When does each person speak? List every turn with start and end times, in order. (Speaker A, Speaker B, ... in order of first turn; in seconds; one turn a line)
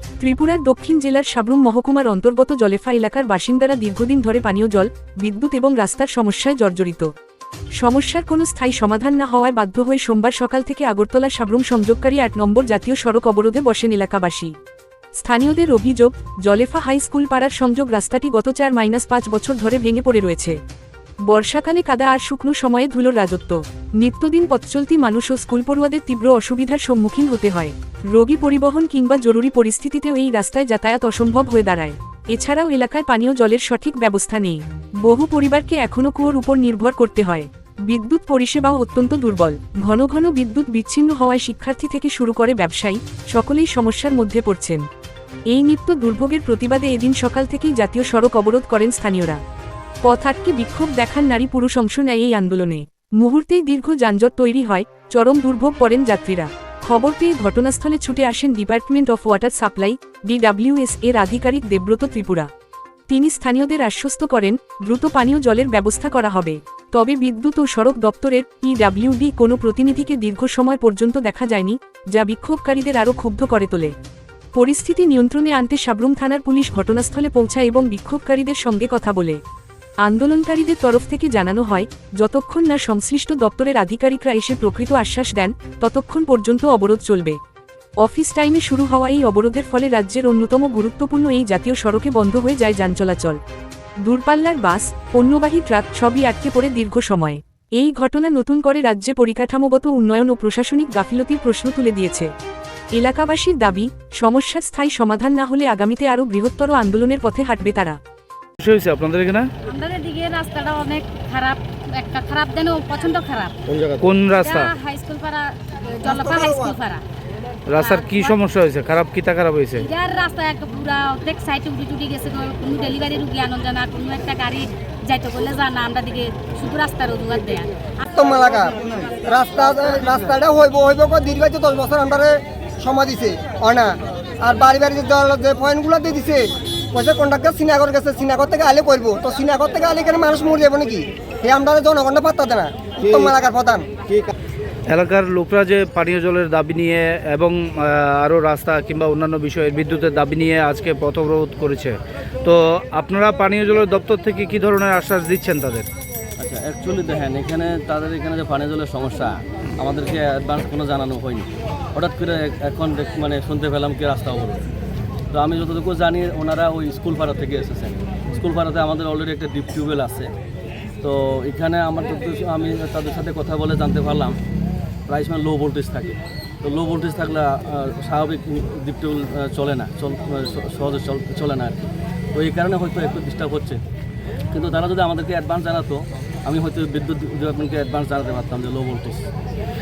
Speaker A: 0.2-7.1
Speaker A: 7.8-14.5
Speaker A: 15.2-20.6
Speaker A: 21.3-44.9
Speaker A: 45.5-49.4
Speaker A: 50.0-62.5
Speaker A: 63.1-73.9
Speaker A: 74.6-79.4
Speaker A: 80.0-87.4
Speaker A: 88.0-93.4
Speaker A: 94.0-102.3
Speaker A: 103.0-108.0
Speaker B: 108.6-109.5
Speaker C: 109.7-113.5
Speaker B: 114.0-114.7
Speaker C: 114.4-117.0
Speaker D: 116.0-116.8
Speaker B: 117.7-119.9
Speaker C: 117.8-118.3
Speaker C: 119.8-128.1
Speaker D: 128.1-144.3
Speaker B: 144.9-155.9
Speaker E: 156.4-164.7
Speaker E: 165.3-170.3
Speaker E: 171.0-174.4
Speaker E: 175.1-183.8
Speaker E: 184.5-189.3